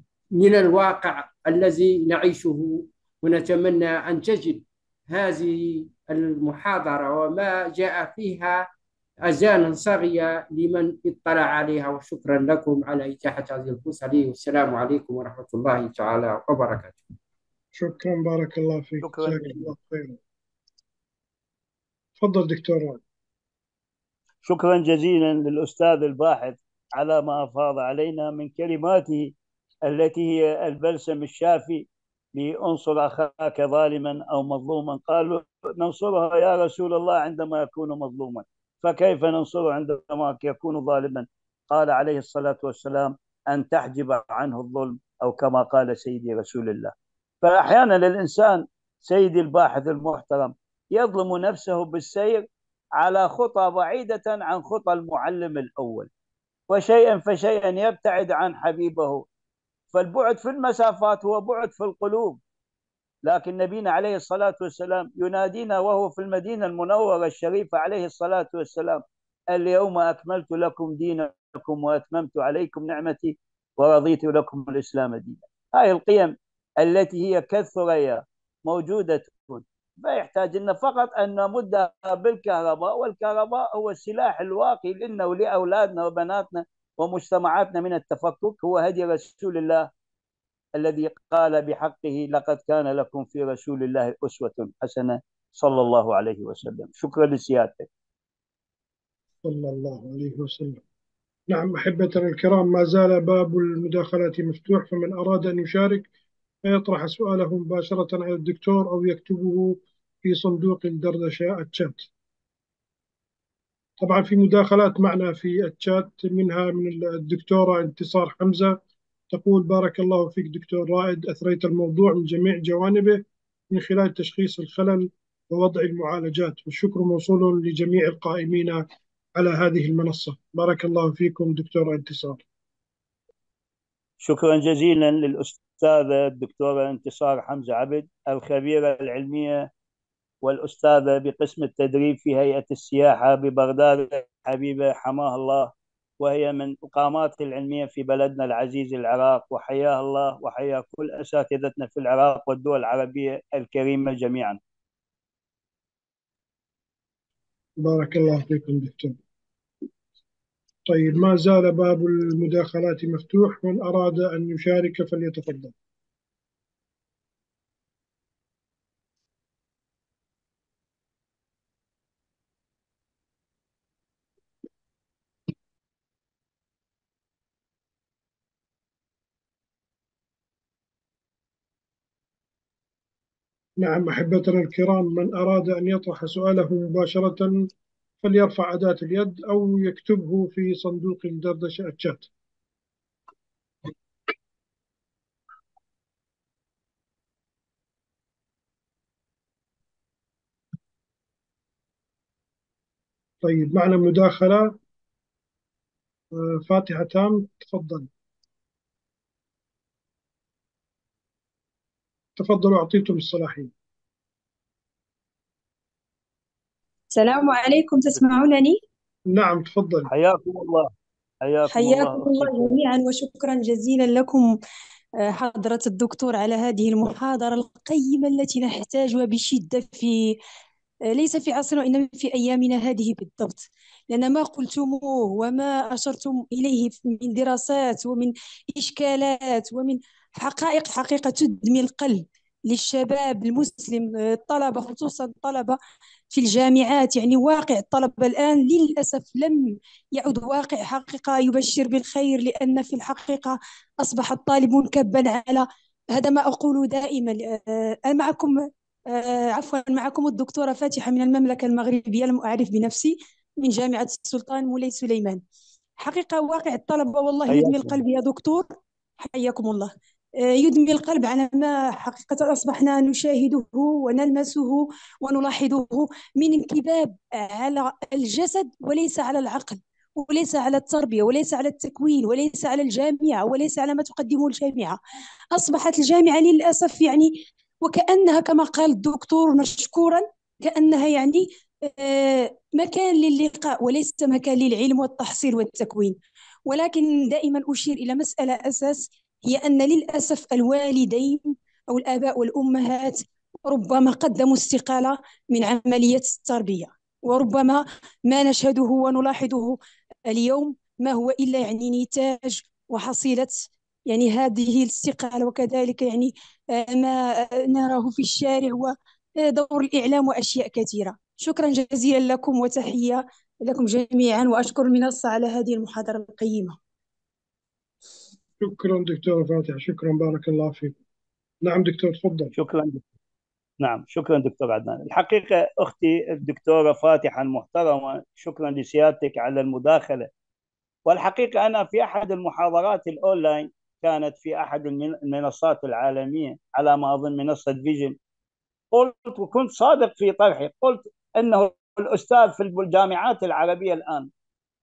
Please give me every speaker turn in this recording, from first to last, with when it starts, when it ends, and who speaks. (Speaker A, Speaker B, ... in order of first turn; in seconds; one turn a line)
Speaker A: 0.3-8.7
Speaker A: 9.2-17.0
Speaker B: 17.7-20.2
Speaker C: 19.0-19.6
Speaker B: 22.2-23.0
Speaker C: 24.4-52.4
Speaker C: 53.0-56.1
Speaker C: 56.7-59.2
Speaker C: 59.9-62.4
Speaker C: 63.2-89.9
Speaker C: 90.7-97.9
Speaker B: 99.4-100.8
Speaker B: 101.5-106.1
Speaker B: 106.6-112.1
Speaker B: 114.0-118.8
Speaker B: 119.3-132.4
Speaker C: 134.2-139.7
Speaker C: 140.4-154.6
Speaker B: 157.8-159.2
Speaker B: 160.9-165.7
Speaker B: 183.8-187.6
Speaker B: 188.2-192.3
Speaker B: 203.4-204.7
Speaker B: 206.3-208.1
Speaker B: 212.4-213.7
Speaker D: 217.1-218.8
Speaker B: 219.3-220.1
Speaker C: 220.1-220.9
Speaker C: 221.4-222.8
Speaker D: 221.7-224.5
Speaker D: 225.2-230.4
Speaker D: 231.1-245.8
Speaker D: 246.3-265.4
Speaker D: 266.0-268.7
Speaker C: 267.5-268.0
Speaker D: 269.2-269.9
Speaker D: 270.4-285.0
Speaker D: 285.5-326.7
Speaker B: 328.6-331.0
Speaker B: 331.6-332.5
Speaker C: 332.6-333.0
Speaker C: 333.8-340.3
Speaker C: 341.1-348.1
Speaker C: 348.9-354.3